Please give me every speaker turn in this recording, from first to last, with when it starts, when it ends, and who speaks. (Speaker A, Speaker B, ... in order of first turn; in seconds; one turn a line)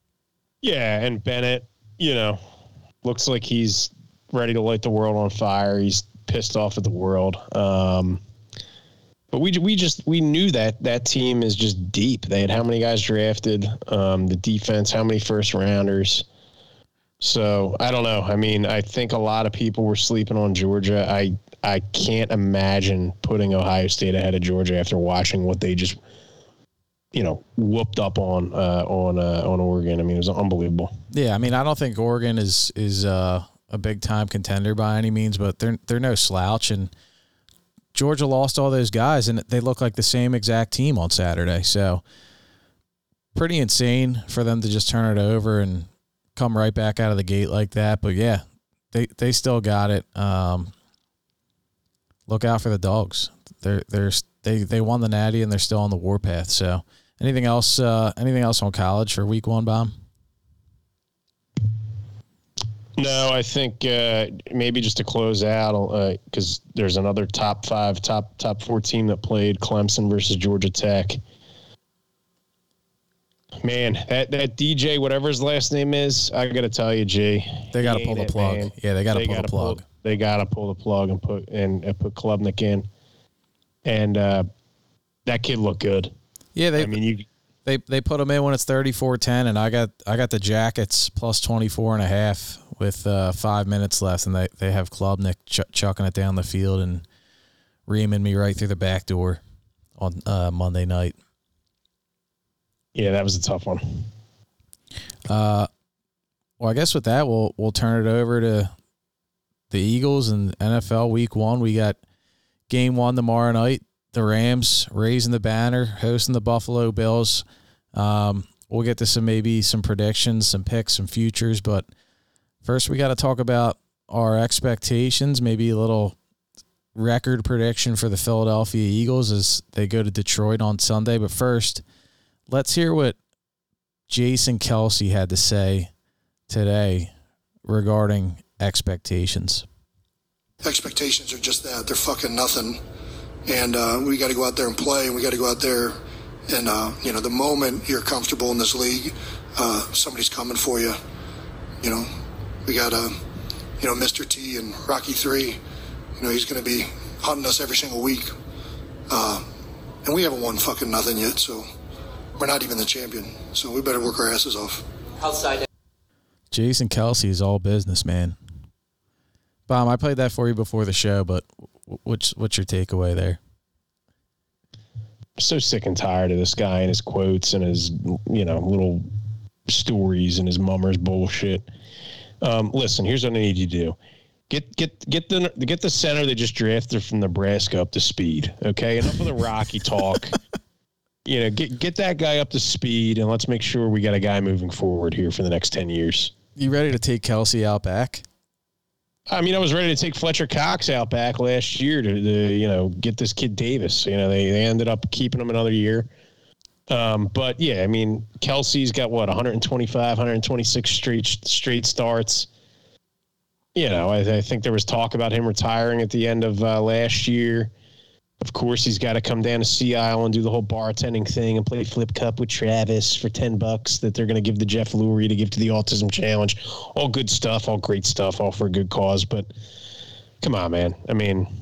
Speaker A: 0.6-2.4
Speaker A: 3.0-8.2
Speaker A: 9.3-16.3
Speaker A: 17.2-26.0
Speaker A: 27.1-30.9
Speaker B: 31.1-36.9
Speaker B: 37.9-42.0
Speaker B: 43.3-50.7
Speaker B: 52.3-59.9
Speaker A: 63.0-71.2
Speaker A: 73.6-82.9
Speaker B: 77.7-79.8
Speaker A: 83.8-84.5
Speaker A: 85.3-86.1
Speaker B: 86.6-87.0
Speaker A: 86.8-87.3
Speaker B: 87.7-97.0
Speaker B: 97.9-99.4
Speaker B: 100.0-101.2
Speaker A: 103.0-104.1
Speaker B: 105.3-105.7
Speaker B: 106.6-108.7
Speaker B: 109.7-112.0
Speaker B: 112.7-121.9
Speaker B: 122.6-126.2
Speaker B: 127.0-131.8
Speaker B: 132.5-133.2
Speaker B: 134.1-135.9
Speaker B: 136.5-137.1
Speaker B: 137.7-139.7
Speaker C: 140.6-142.8
Speaker C: 143.5-146.0
Speaker C: 146.5-151.0
Speaker C: 151.8-152.1
Speaker C: 152.7-153.2
Speaker C: 153.8-155.6
Speaker C: 156.2-158.3
Speaker C: 159.1-159.5
Speaker C: 160.1-161.7
Speaker C: 162.4-164.8
Speaker B: 166.5-168.4
Speaker B: 169.7-173.4
Speaker A: 175.4-179.1
Speaker A: 179.7-181.7
Speaker A: 182.4-184.0
Speaker A: 184.5-190.3
Speaker A: 191.2-196.3
Speaker B: 196.6-198.2
Speaker A: 199.3-206.1
Speaker A: 206.9-212.5
Speaker A: 213.8-217.7
Speaker A: 218.4-229.5
Speaker A: 230.4-231.5